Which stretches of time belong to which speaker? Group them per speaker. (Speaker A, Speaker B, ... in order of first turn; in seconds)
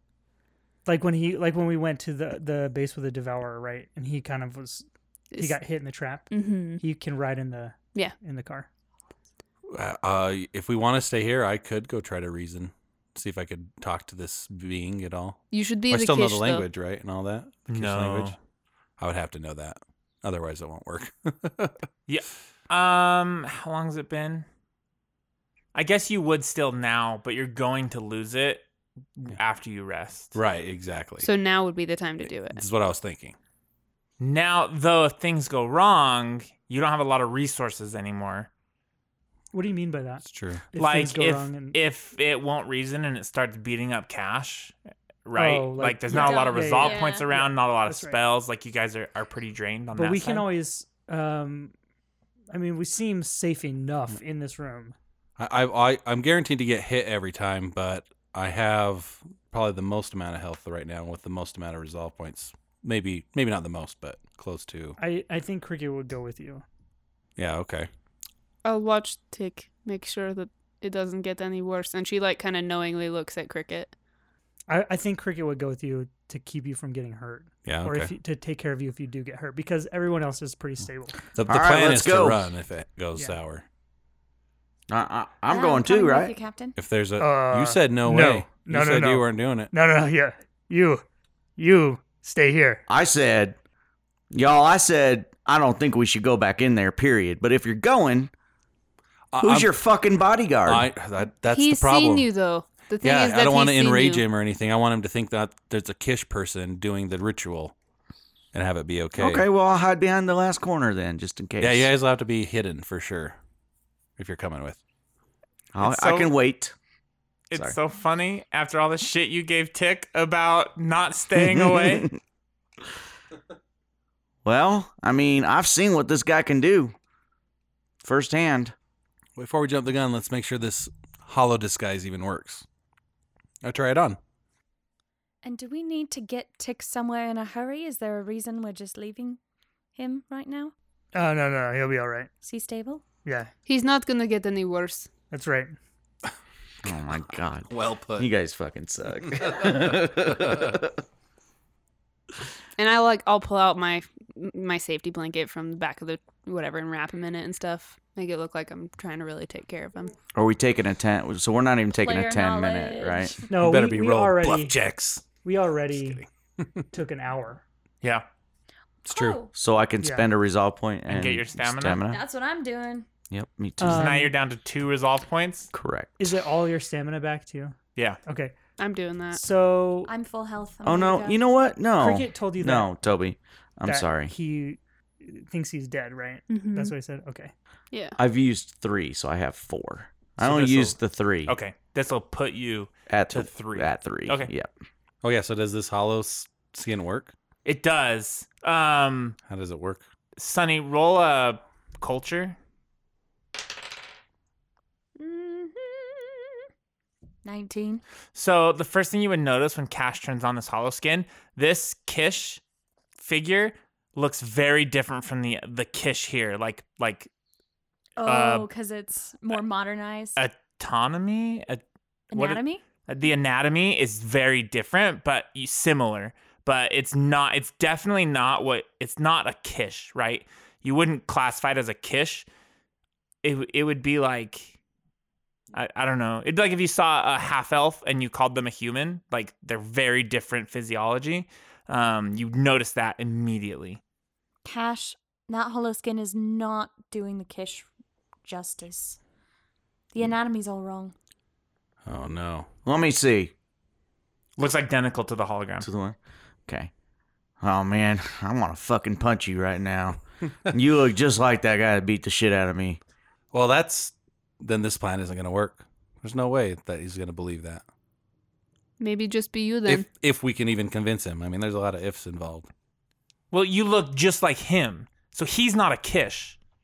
Speaker A: 0.8-4.8, 5.4-8.7, 39.5-41.8, 45.4-48.2, 49.9-51.7, 52.5-54.9, 65.0-66.6, 74.7-81.2, 87.2-91.0, 91.6-92.8, 141.1-142.3, 143.2-143.5, 145.3-145.7, 163.5-164.8, 165.4-166.2, 166.9-167.6, 170.0-170.3, 173.8-174.3, 176.2-178.6, 179.3-180.1, 182.0-182.9, 183.9-187.5
Speaker B: 5.3-5.6, 6.3-6.8, 15.5-16.6, 31.2-32.6, 68.6-73.9, 101.5-104.2, 143.7-145.1, 152.8-160.1, 178.8-179.4, 186.5-186.9, 187.9-188.2, 269.0-270.1
Speaker C: 9.7-18.4, 19.0-21.8, 30.3-31.3, 32.5-33.4, 40.2-40.6, 55.4-65.0, 67.3-67.9, 77.7-78.1, 81.3-83.6, 86.8-89.7, 99.3-99.7, 100.7-102.3, 103.0-107.7, 108.5-109.4, 111.6-113.3, 114.2-114.8, 129.3-132.7, 133.6-134.2, 146.8-148.3, 149.2-150.8, 163.5-165.2, 165.9-166.3, 169.1-169.4, 195.2-197.3, 199.5-200.0, 252.1-252.7, 263.5-267.8, 269.9-272.7
Speaker D: 17.7-18.4, 22.1-24.4, 25.7-30.4, 34.2-38.5, 40.8-50.5, 115.8-116.3, 117.5-122.1, 171.1-172.0, 173.9-175.7, 190.4-194.5, 197.6-199.3, 200.4-202.6, 208.3-212.6, 213.2-217.3, 218.2-218.7, 220.3-221.8, 222.3-232.5, 233.4-234.7, 235.7-244.0, 254.6-255.9, 273.5-276.6
Speaker E: 46.1-47.3, 85.5-86.8, 135.4-139.4, 139.9-140.7, 142.4-143.0, 161.9-163.5, 169.1-169.5, 172.1-173.1, 180.1-181.4, 205.2-206.2, 207.4-208.0, 218.2-220.4, 222.3-222.8, 244.6-247.9, 248.4-249.2, 250.1-251.1
Speaker F: 81.5-82.4, 84.9-86.4, 92.9-93.5, 94.3-98.3, 99.4-100.9, 109.2-111.9, 115.7-116.7, 121.4-122.2, 124.4-126.9, 128.0-128.7, 146.8-150.9, 160.3-163.4, 169.5-172.2, 173.3-174.1, 175.7-176.2, 180.8-184.3, 188.2-191.5, 193.1-194.7, 252.8-253.5, 255.8-256.9, 257.6-263.0